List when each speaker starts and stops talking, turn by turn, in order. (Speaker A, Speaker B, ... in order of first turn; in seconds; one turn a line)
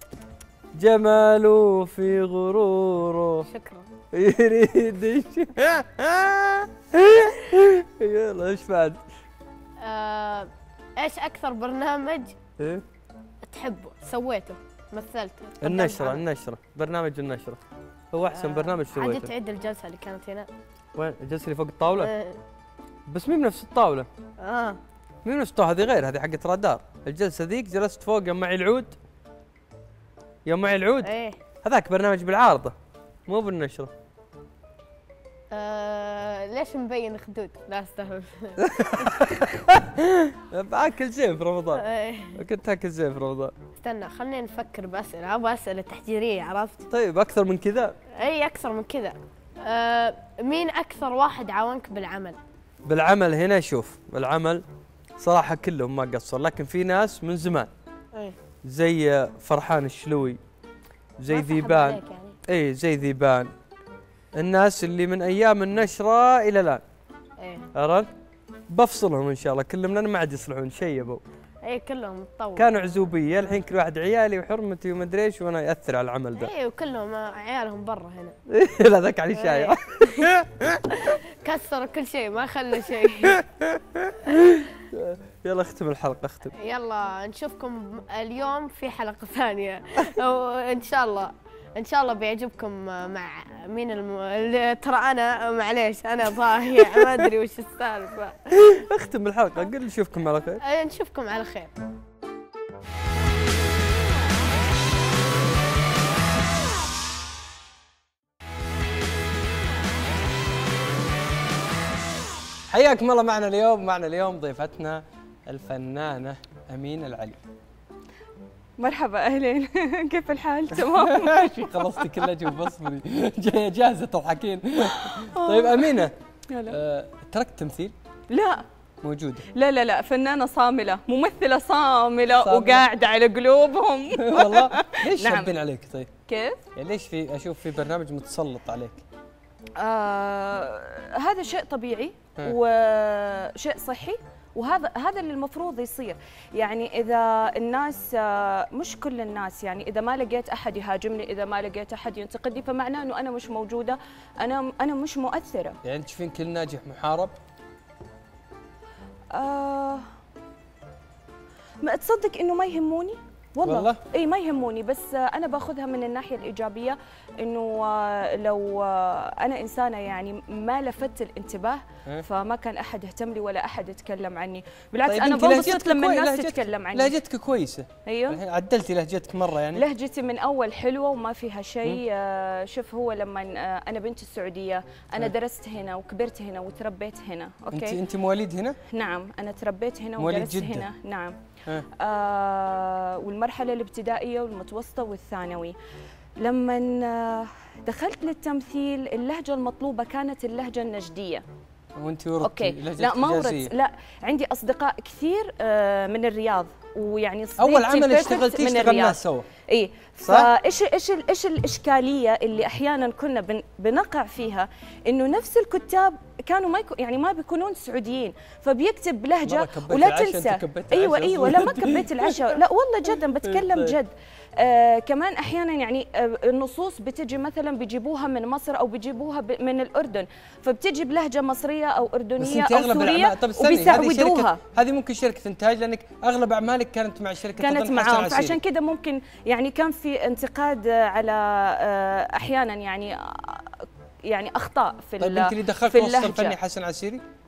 Speaker A: 0.8-3.5
Speaker B: 3.5-3.9
Speaker A: 4.1-9.0
Speaker B: 9.8-12.3
Speaker B: 13.4-16.2
Speaker A: 15.6-17.6
Speaker A: 18.1-19.3
Speaker B: 18.3-20.5
Speaker A: 20.9-22.1
Speaker B: 21.9-22.4
Speaker A: 23.1-24.1
Speaker B: 24.4-24.8
Speaker A: 25.2-28.9
Speaker A: 30.4-31.1
Speaker B: 31.0-31.4
Speaker A: 31.6-32.7
Speaker A: 33.3-33.9
Speaker B: 35.5-39.4
Speaker A: 38.6-41.8
Speaker B: 41.8-42.4
Speaker A: 42.3-43.5
Speaker B: 43.8-46.8
Speaker A: 46.9-47.9
Speaker B: 48.2-52.4
Speaker A: 52.9-54.6
Speaker A: 55.2-57.7
Speaker A: 58.6-60.4
Speaker A: 61.2-63.5
Speaker B: 61.3-62.4
Speaker A: 64.3-66.8
Speaker A: 67.7-68.1
Speaker A: 68.7-71.2
Speaker B: 71.6-72.7
Speaker A: 72.5-76.5
Speaker B: 76.4-78.3
Speaker A: 78.5-80.8
Speaker B: 79.3-80.3
Speaker B: 80.9-83.4
Speaker A: 83.5-86.5
Speaker B: 86.6-98.4
Speaker A: 98.5-100.6
Speaker B: 100.6-101.7
Speaker A: 112.7-117.4
Speaker C: 118.8-122.0
Speaker A: 120.8-126.1
Speaker C: 125.0-126.8
Speaker A: 126.7-127.9
Speaker C: 128.3-128.6
Speaker A: 129.0-129.4
Speaker C: 129.5-135.5
Speaker A: 132.4-132.8
Speaker A: 134.2-136.1
Speaker C: 136.3-136.6
Speaker A: 136.8-139.0
Speaker C: 139.8-155.8
Speaker A: 155.8-157.3
Speaker C: 159.3-160.1
Speaker C: 161.8-177.1
Speaker A: 163.6-164.0
Speaker A: 175.1-179.8
Speaker C: 178.1-178.4
Speaker C: 179.7-188.0
Speaker A: 187.7-188.8
Speaker C: 188.9-191.3
Speaker A: 190.2-190.9
Speaker C: 191.9-195.8
Speaker C: 196.4-201.4
Speaker A: 202.0-203.7
Speaker C: 202.4-234.6
Speaker A: 207.6-209.5
Speaker A: 219.4-222.6
Speaker A: 223.4-223.9
Speaker A: 232.4-238.6
Speaker C: 237.6-246.6
Speaker A: 245.2-247.2